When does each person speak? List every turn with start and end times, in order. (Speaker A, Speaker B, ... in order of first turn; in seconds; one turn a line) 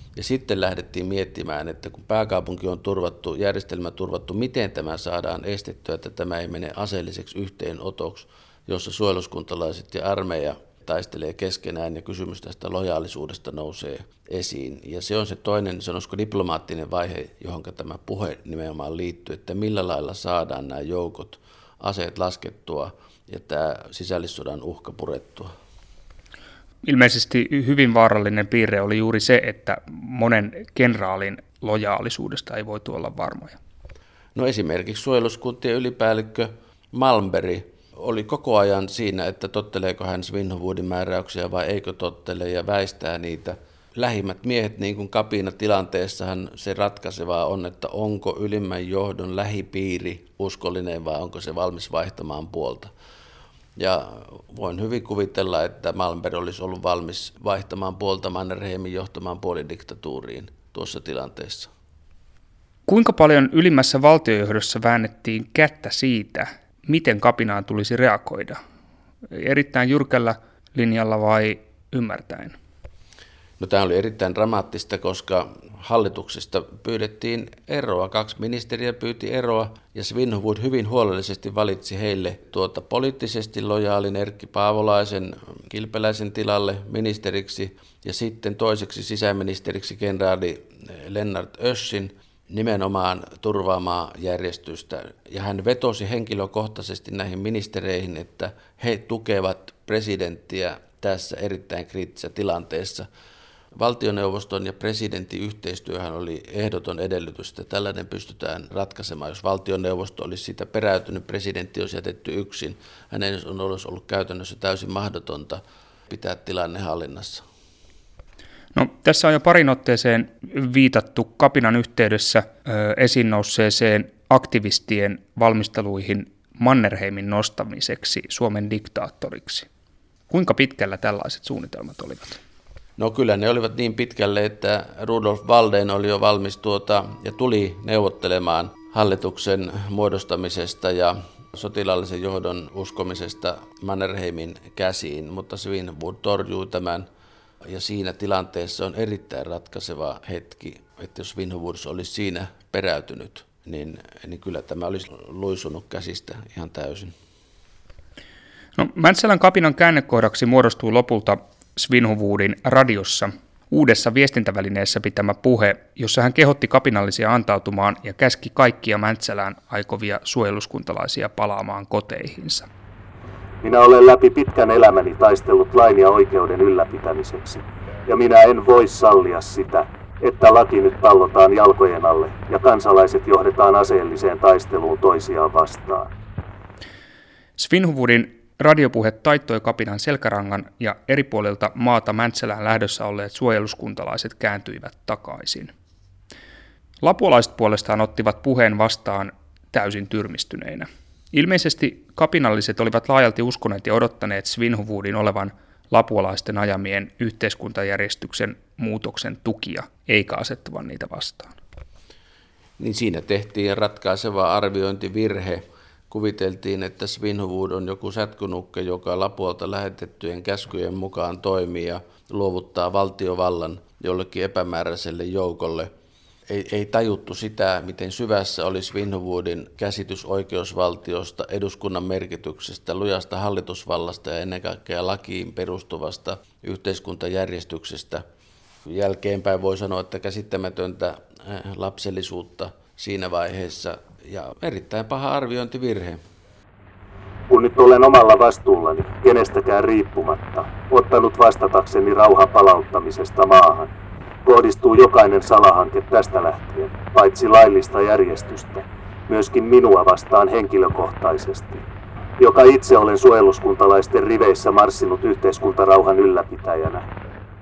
Speaker A: 0.1-25.5
Speaker B: 26.8-33.6
Speaker A: 34.3-52.9
Speaker A: 53.8-61.7
Speaker B: 62.9-68.6
Speaker B: 69.3-72.5
Speaker A: 73.6-103.1
Speaker A: 103.7-117.4
Speaker B: 118.7-129.7
Speaker B: 130.3-132.4
Speaker A: 133.0-147.1
Speaker A: 147.6-157.1
Speaker B: 158.8-172.7
Speaker C: 173.6-186.1
Speaker B: 187.6-195.7
Speaker B: 197.0-211.5
Speaker A: 212.8-225.9
Speaker A: 226.5-238.2
Speaker A: 238.8-246.2
Speaker C: 247.5-253.9
Speaker C: 254.4-261.8
Speaker C: 262.4-267.1